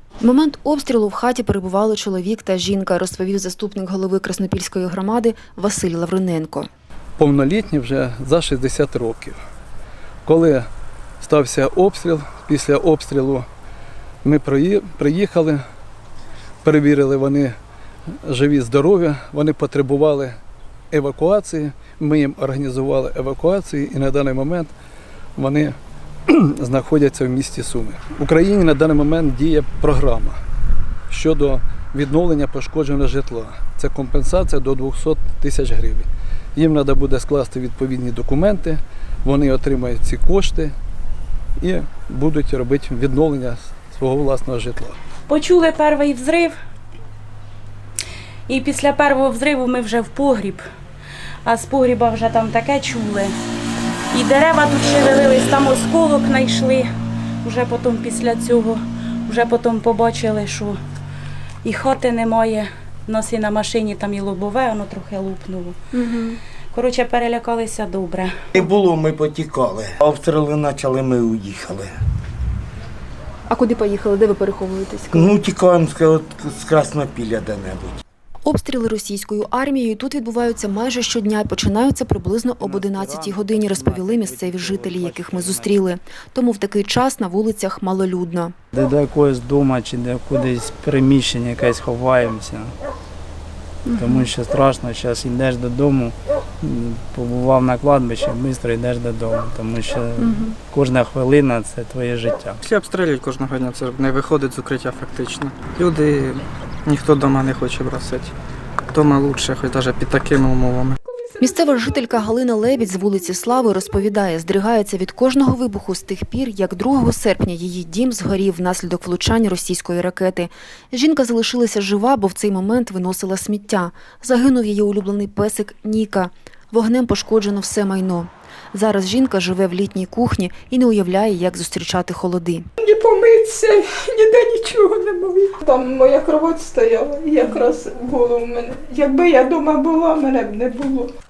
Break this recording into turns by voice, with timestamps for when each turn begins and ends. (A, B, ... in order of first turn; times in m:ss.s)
0:00.2-0:06.7 A
0:07.2-0:09.4 B
0:10.2-0:10.7 B
0:11.2-0:13.5 B
0:14.2-0:15.6 B
0:16.6-0:17.6 B
0:18.2-0:20.4 B
0:20.9-0:24.7 B
0:25.4-0:25.8 B
0:26.3-0:30.4 B
0:31.1-0:40.7 B
0:41.6-0:45.0 B
0:45.3-0:46.6 C
0:48.5-0:50.6 C
0:51.4-0:53.3 C
0:54.1-0:56.9 C
0:57.4-1:00.8 C
1:01.6-1:05.8 C
1:05.9-1:06.4 A
1:06.7-1:08.3 C
1:08.5-1:12.0 D
1:13.5-1:15.4 A
1:15.1-1:18.0 D
1:18.4-1:28.5 A
1:22.6-1:25.8 E
1:28.7-1:32.7 E
1:33.8-1:34.3 A
1:33.9-1:42.6 E
1:40.2-1:40.6 A
1:42.6-1:48.3 F
1:48.9-1:51.0 F
1:51.0-1:53.8 G
1:51.4-2:12.7 A
2:12.8-2:21.1 G